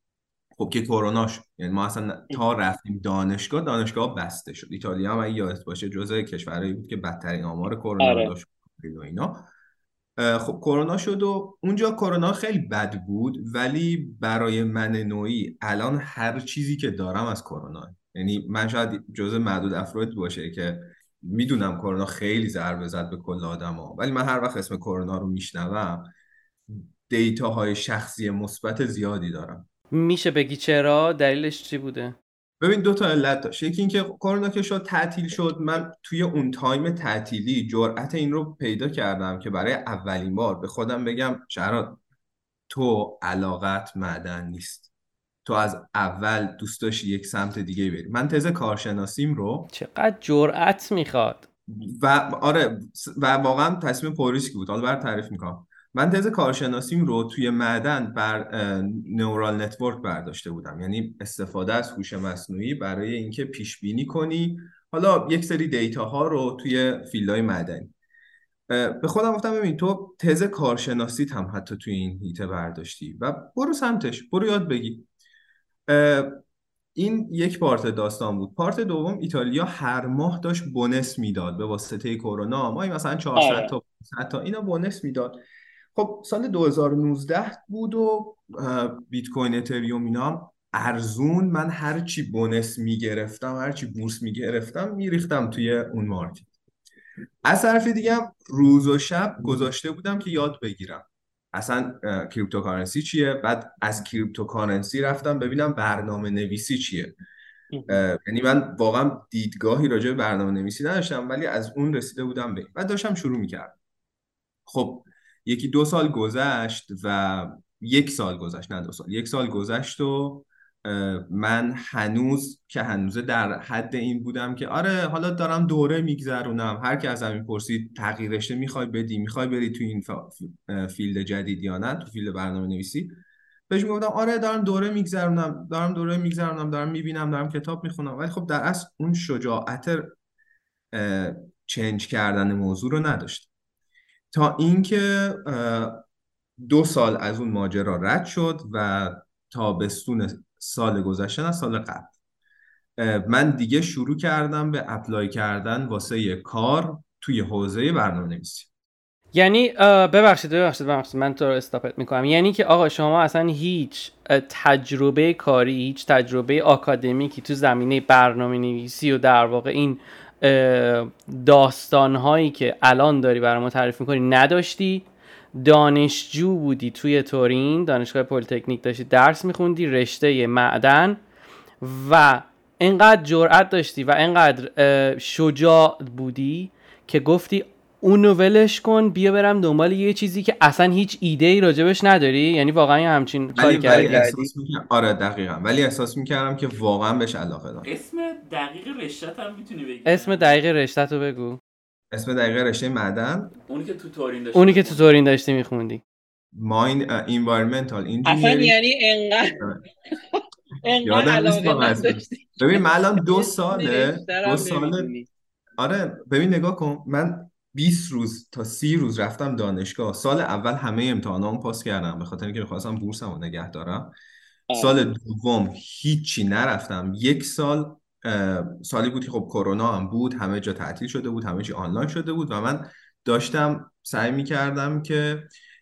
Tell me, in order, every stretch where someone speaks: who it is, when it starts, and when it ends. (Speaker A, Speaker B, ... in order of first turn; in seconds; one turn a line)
Speaker A: 0.6-9.5
Speaker B: 8.0-8.3
Speaker A: 10.2-26.1
Speaker A: 26.7-29.7
Speaker C: 29.9-32.1
Speaker A: 32.6-42.0
Speaker A: 42.7-44.9
Speaker A: 45.4-49.7
Speaker C: 49.7-51.5
Speaker A: 51.7-67.9
Speaker A: 68.7-75.1
Speaker A: 75.9-76.3
Speaker A: 76.9-85.4
Speaker B: 83.3-83.7
Speaker A: 85.9-96.5
Speaker A: 97.4-107.1
Speaker B: 107.7-108.0
Speaker A: 107.9-113.8
Speaker A: 114.7-133.2
Speaker A: 133.7-140.1
Speaker A: 140.9-143.5
Speaker A: 144.3-146.0
Speaker A: 146.6-152.1
Speaker A: 153.0-158.7
Speaker C: 159.3-181.2
Speaker C: 181.8-194.2
Speaker A: 193.6-197.9
Speaker B: 193.7-194.5
Speaker D: 197.8-200.5
Speaker C: 200.1-201.6
Speaker A: 202.1-203.5
Speaker D: 203.7-205.1
Speaker C: 204.5-206.0
Speaker A: 206.5-208.8
Speaker B: 208.2-209.7
Speaker B: 210.8-215.3
Speaker A: 211.0-215.1
Speaker A: 215.8-224.1
Speaker B: 224.7-225.0
Speaker A: 224.7-235.5